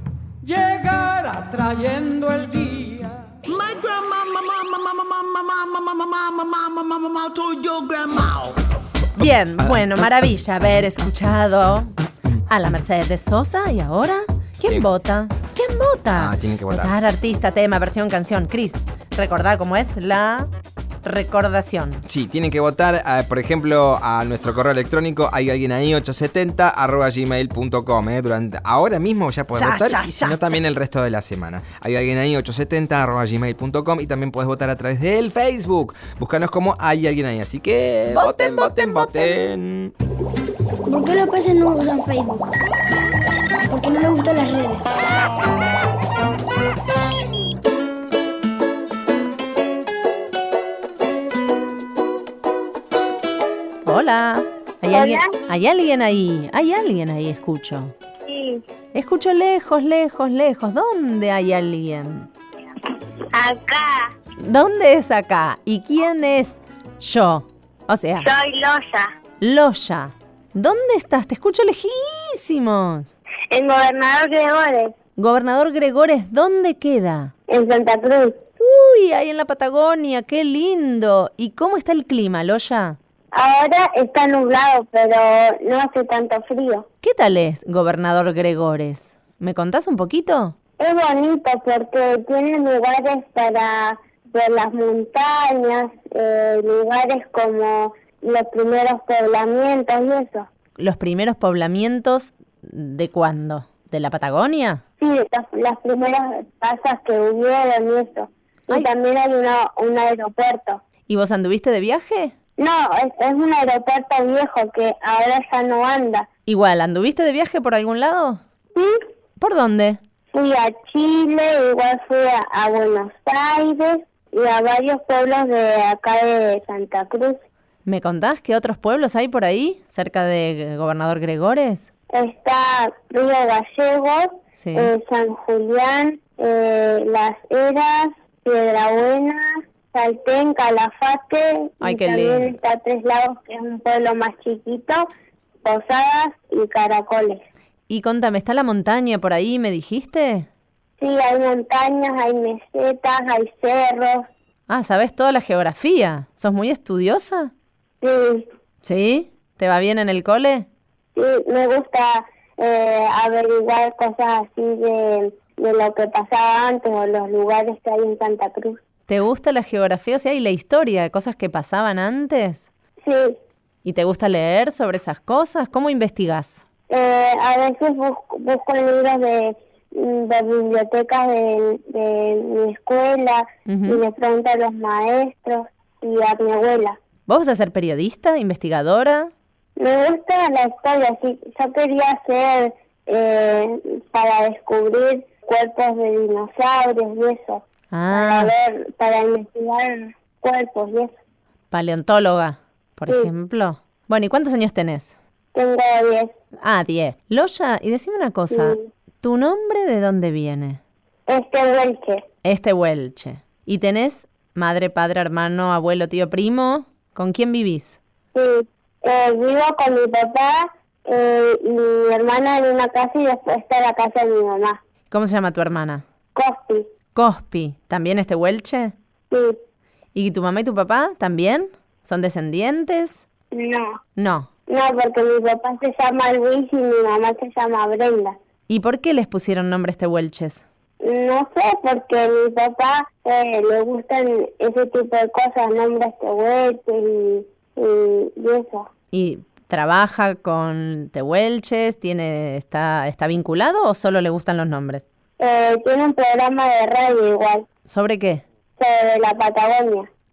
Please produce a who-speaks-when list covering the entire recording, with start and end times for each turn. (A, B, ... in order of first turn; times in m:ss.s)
0:00.4-0:03.3 A
0:03.7-0:04.3 B
0:05.0-0:06.0 B
0:06.6-0:08.4 B
0:09.2-0:11.9 C
0:09.6-0:10.0 D
0:12.5-0:20.5 C
0:16.2-0:16.9 D
0:21.0-0:22.0 C
0:22.0-0:39.9 D
0:29.5-0:30.6 C
0:38.1-0:39.3 C
0:40.8-0:42.5 E
0:43.7-0:45.0 E
0:53.8-0:57.9 C
0:54.9-0:55.3 F
0:58.3-0:58.6 F
0:58.9-1:02.3 C
1:03.3-1:04.1 F
1:04.4-1:08.3 C
1:08.2-1:09.1 F
1:09.4-1:13.2 C
1:13.5-1:14.9 F
1:15.2-1:17.3 C
1:17.5-1:18.4 F
1:18.6-1:23.0 C
1:23.3-1:26.8 F
1:27.0-1:30.5 C
1:30.8-1:40.5 F
1:40.8-1:44.8 C
1:45.0-1:50.8 F
1:51.1-1:52.3 C
1:52.6-1:56.3 F
1:56.5-1:58.4 C
1:58.7-1:59.0 F
1:59.4-2:00.0 C
2:00.3-2:07.4 F
2:07.8-2:11.9 C
2:12.1-2:25.1 F
2:14.6-2:14.9 C
2:21.8-2:22.5 C
2:25.6-2:27.4 F
2:27.9-2:30.5 C
2:31.0-2:34.3 F
2:34.7-2:37.5 C
2:38.0-2:38.5 F
2:38.8-2:40.7 C
2:41.2-2:48.8 F
2:49.1-2:52.7 C
2:53.0-2:53.4 F
2:53.8-2:56.6 C
2:56.9-3:07.0 F
3:03.7-3:04.0 C
3:07.3-3:09.3 C
3:09.8-3:21.1 F
3:17.9-3:18.5 C
3:21.7-3:25.2 C
3:25.5-3:26.3 F
3:26.6-3:30.8 C
3:28.5-3:28.9 F
3:31.3-3:32.2 F
3:32.4-3:38.0 C
3:38.3-3:44.8 F
3:45.1-3:46.0 C
3:46.3-3:46.9 F
3:47.1-3:48.9 C
3:49.3-3:49.6 F
3:50.1-3:53.2 C
3:53.5-3:54.0 F
3:54.2-3:54.5 C
3:54.7-3:58.4 F
3:58.7-4:00.6 C
4:01.0-4:08.9 F
4:09.1-4:15.0 C
4:15.4-4:17.6 F
4:17.9-4:18.4 C
4:18.8-4:20.1 F